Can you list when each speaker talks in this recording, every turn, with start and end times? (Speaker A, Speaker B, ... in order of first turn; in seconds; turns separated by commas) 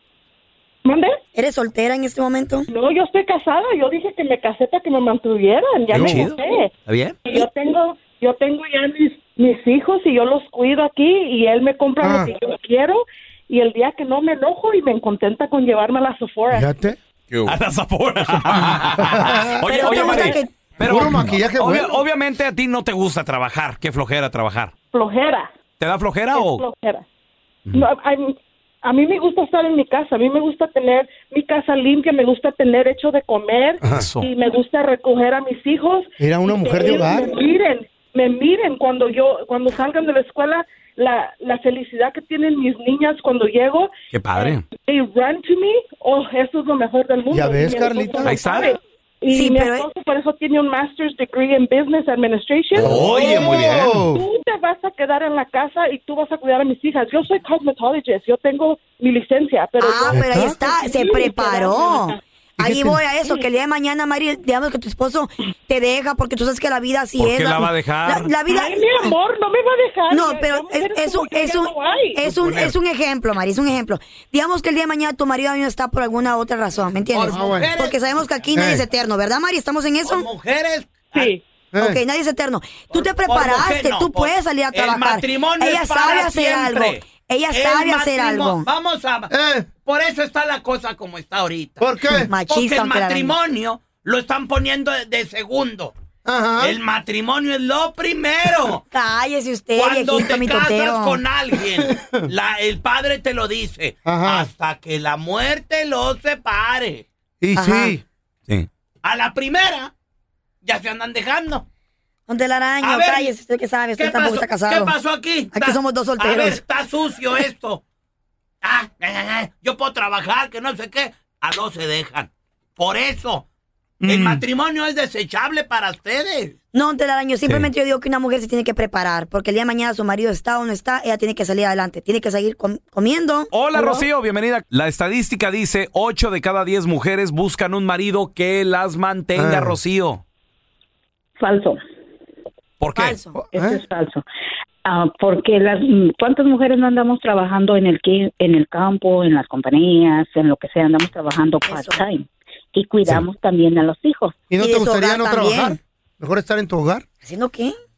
Speaker A: 0.8-1.2, Speaker B: 1.4-2.7, Speaker A: 2.7-6.7, Speaker C: 5.9-7.2, Speaker A: 7.2-16.7, Speaker D: 12.0-12.3, Speaker D: 16.5-17.0, Speaker C: 17.4-24.7, Speaker D: 18.8-20.2, Speaker B: 19.6-20.5, Speaker A: 19.9-20.3, Speaker D: 20.9-22.0, Speaker A: 24.9-25.5, Speaker C: 25.8-26.6, Speaker A: 26.3-27.1, Speaker A: 27.7-62.2, Speaker C: 33.9-34.3, Speaker D: 36.2-37.4, Speaker C: 44.1-44.6, Speaker D: 47.3-48.4, Speaker C: 48.2-48.7, Speaker B: 49.3-49.9, Speaker D: 52.8-54.2, Speaker C: 52.8-54.0, Speaker B: 59.8-69.1, Speaker D: 60.1-60.6, Speaker D: 62.6-63.0, Speaker C: 67.2-68.3, Speaker A: 68.5-72.2, Speaker B: 70.1-80.3, Speaker E: 77.1-78.0, Speaker D: 77.3-77.7, Speaker D: 78.5-78.8, Speaker E: 80.0-81.3, Speaker D: 81.7-82.0, Speaker B: 81.8-88.7, Speaker E: 82.9-89.3, Speaker D: 89.3-89.7, Speaker E: 89.8-91.9, Speaker D: 91.8-92.3, Speaker B: 92.3-93.4, Speaker E: 92.4-95.9, Speaker D: 96.2-96.8, Speaker E: 96.6-98.8, Speaker B: 98.9-101.2, Speaker E: 99.8-107.0, Speaker D: 101.8-102.2, Speaker D: 104.0-104.5, Speaker D: 107.4-108.0, Speaker B: 107.6-108.0, Speaker E: 109.0-109.9, Speaker E: 110.6-111.7, Speaker B: 112.3-114.9, Speaker E: 112.8-113.3, Speaker E: 114.0-117.8, Speaker B: 115.5-116.6, Speaker E: 118.6-123.5, Speaker D: 124.0-124.4, Speaker E: 124.0-126.5, Speaker B: 126.7-133.8, Speaker C: 133.5-140.2, Speaker D: 139.4-139.8, Speaker F: 141.4-141.8, Speaker C: 142.8-143.2, Speaker B: 142.9-143.4, Speaker D: 143.3-143.8, Speaker F: 143.5-144.2, Speaker F: 144.8-154.4, Speaker B: 151.7-152.0, Speaker D: 154.5-157.1, Speaker B: 154.6-155.8, Speaker B: 157.2-157.8